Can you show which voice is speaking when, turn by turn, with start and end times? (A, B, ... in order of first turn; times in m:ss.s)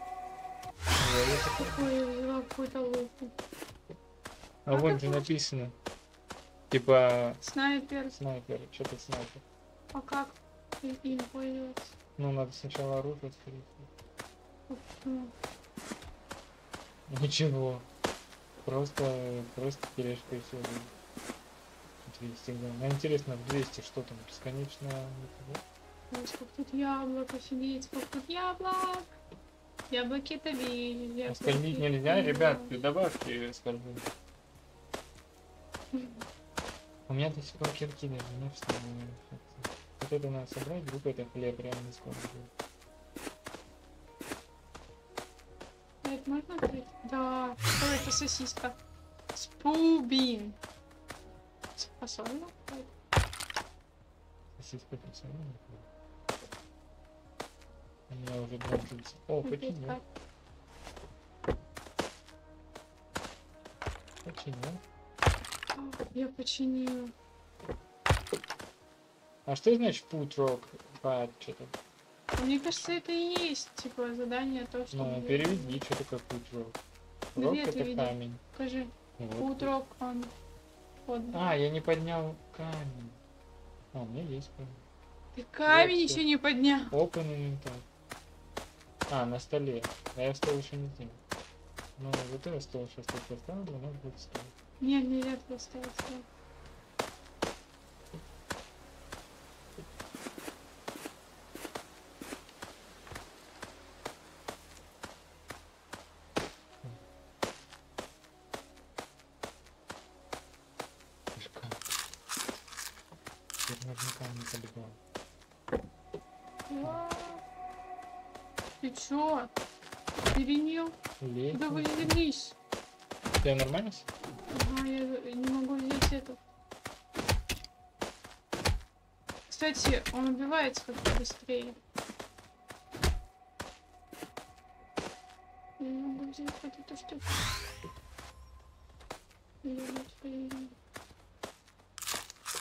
0:00.9-0:01.9 A
0:01.6-0:03.3 B
0:04.7-0:05.8 A
0:04.7-0:05.3 B
0:06.7-0:07.4 A
0:07.4-0:08.2 B
0:08.1-0:09.4 A
0:09.9-0:12.0 B
0:12.2-0:13.9 A
0:14.7-0:15.3 B
0:17.1-0:17.9 A
0:18.6-0:20.9 A
0:22.0-0:25.6 A
0:26.1-0:29.1 B
0:29.9-0:32.7 B
0:31.3-0:34.1 A
0:35.9-0:36.2 B
0:37.1-0:42.5 A
0:46.0-0:48.8 B
0:49.3-0:50.6 B
0:51.8-0:52.9 B
0:54.6-0:55.9 A
0:58.1-1:00.0 A
0:59.4-1:00.0 B
1:04.2-1:04.8 A
1:05.8-1:07.1 B
1:09.5-1:11.8 A
1:12.4-1:15.8 B
1:14.9-1:16.8 A
1:17.3-1:18.4 A
1:17.4-1:20.3 B
1:19.2-1:19.7 A
1:21.1-1:21.4 B
1:21.3-1:23.2 A
1:23.9-1:24.8 A
1:25.3-1:26.9 B
1:25.7-1:26.2 A
1:26.9-1:27.9 A
1:29.1-1:31.2 A
1:32.0-1:34.5 A
1:34.8-1:36.3 B
1:51.4-1:51.9 A
1:53.7-1:55.0 A
1:56.7-1:57.4 B
1:58.8-1:59.5 B
2:00.3-2:01.0 B
2:01.2-2:02.2 A
2:01.5-2:02.6 B
2:03.4-2:04.1 A
2:04.5-2:06.4 B
2:09.5-2:11.8 B
2:15.8-2:17.5 B
2:19.6-2:20.8 B